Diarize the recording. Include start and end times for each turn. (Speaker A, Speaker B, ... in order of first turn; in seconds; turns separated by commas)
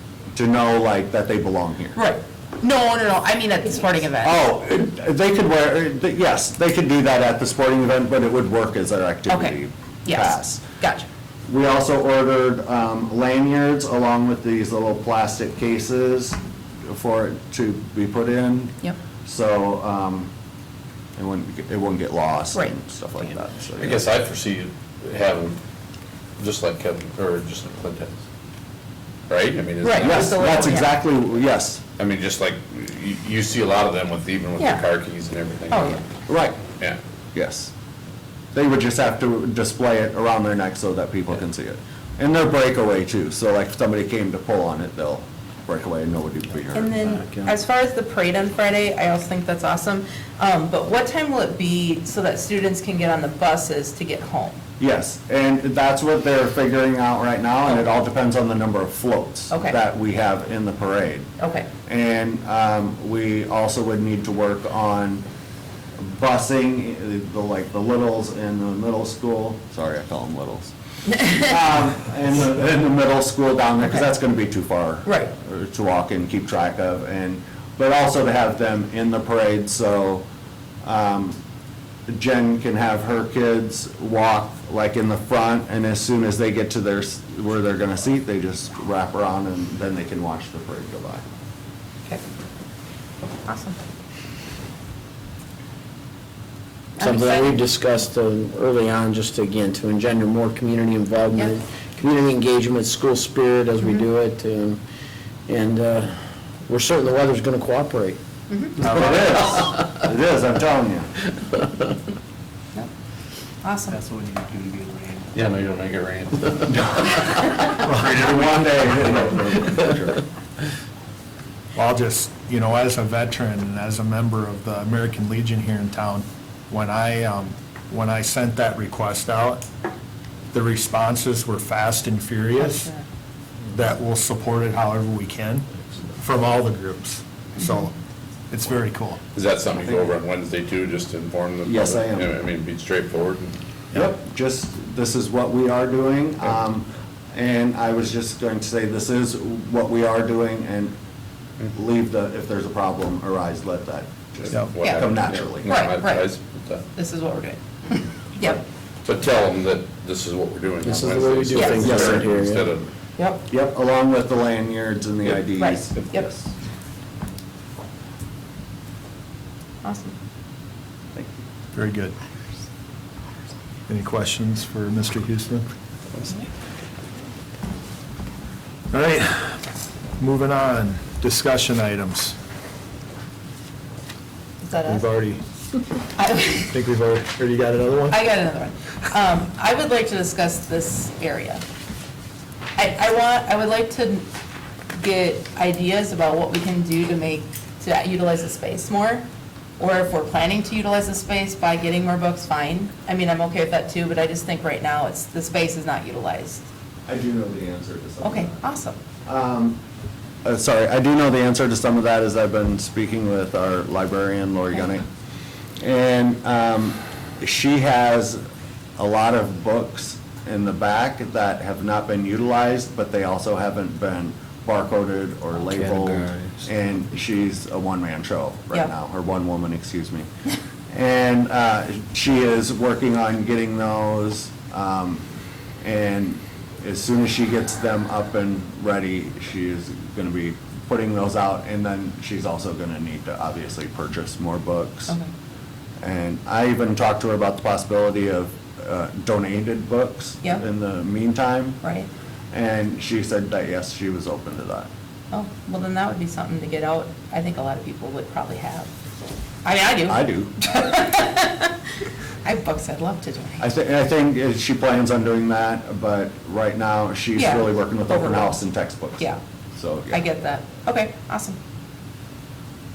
Speaker A: 0.3-2.0, Speaker B: 2.0-4.5, Speaker A: 4.2-10.6, Speaker B: 9.3-11.1, Speaker A: 11.5-20.3, Speaker A: 21.2-24.1, Speaker C: 23.8-25.6, Speaker C: 26.4-28.2, Speaker C: 29.3-30.8, Speaker B: 29.8-31.0, Speaker A: 30.0-31.8, Speaker C: 32.0-36.0, Speaker B: 34.6-34.9, Speaker B: 35.7-36.0, Speaker A: 36.3-36.6, Speaker A: 37.3-37.7, Speaker A: 38.5-47.0, Speaker B: 46.7-54.6, Speaker D: 47.1-47.5, Speaker A: 54.8-61.3, Speaker B: 59.5-59.8, Speaker B: 61.4-61.7, Speaker A: 61.9-65.2, Speaker A: 66.0-80.2, Speaker B: 71.1-71.5, Speaker B: 73.8-74.1, Speaker B: 75.1-75.3, Speaker A: 80.8-81.4, Speaker A: 82.1-91.2, Speaker B: 93.5-93.8, Speaker B: 97.0-97.6, Speaker D: 97.0-104.8, Speaker D: 105.5-108.2, Speaker B: 108.5-108.8, Speaker A: 108.8-111.1, Speaker C: 108.8-109.7, Speaker B: 113.6-114.0, Speaker E: 114.0-115.3, Speaker C: 115.3-117.0, Speaker A: 116.7-120.2, Speaker E: 117.8-118.2, Speaker E: 121.8-129.6, Speaker E: 130.5-132.9, Speaker B: 132.6-133.1, Speaker E: 133.7-137.9, Speaker E: 138.5-139.2, Speaker C: 139.3-143.6, Speaker A: 139.8-140.1, Speaker A: 141.7-142.3, Speaker A: 143.9-150.9, Speaker A: 151.7-155.8, Speaker C: 154.4-156.8, Speaker B: 154.8-155.1, Speaker B: 155.7-156.3, Speaker B: 156.9-158.6, Speaker C: 159.1-162.9, Speaker D: 160.8-162.7, Speaker B: 161.5-161.9, Speaker A: 161.8-162.2, Speaker B: 163.2-163.4, Speaker A: 163.5-166.4, Speaker B: 165.6-166.3, Speaker B: 169.8-170.2, Speaker E: 171.7-172.2, Speaker E: 173.9-175.7, Speaker E: 178.9-179.6, Speaker E: 180.2-182.4, Speaker B: 184.6-185.1, Speaker E: 184.9-185.4, Speaker B: 186.2-186.8, Speaker E: 186.7-188.2, Speaker B: 188.1-191.6, Speaker B: 192.8-194.3, Speaker B: 194.9-206.7, Speaker A: 207.1-208.6, Speaker B: 208.2-209.0, Speaker A: 209.3-209.8, Speaker A: 210.4-215.1, Speaker A: 215.8-218.4, Speaker A: 219.0-230.3, Speaker D: 225.7-226.6, Speaker A: 230.9-235.2, Speaker A: 235.8-245.2, Speaker A: 246.0-251.8, Speaker B: 251.8-252.1, Speaker A: 252.5-254.9, Speaker B: 255.3-258.9, Speaker B: 259.6-261.8, Speaker A: 260.1-260.6, Speaker B: 262.4-263.7, Speaker A: 263.6-270.2, Speaker B: 267.4-268.6, Speaker B: 270.1-271.6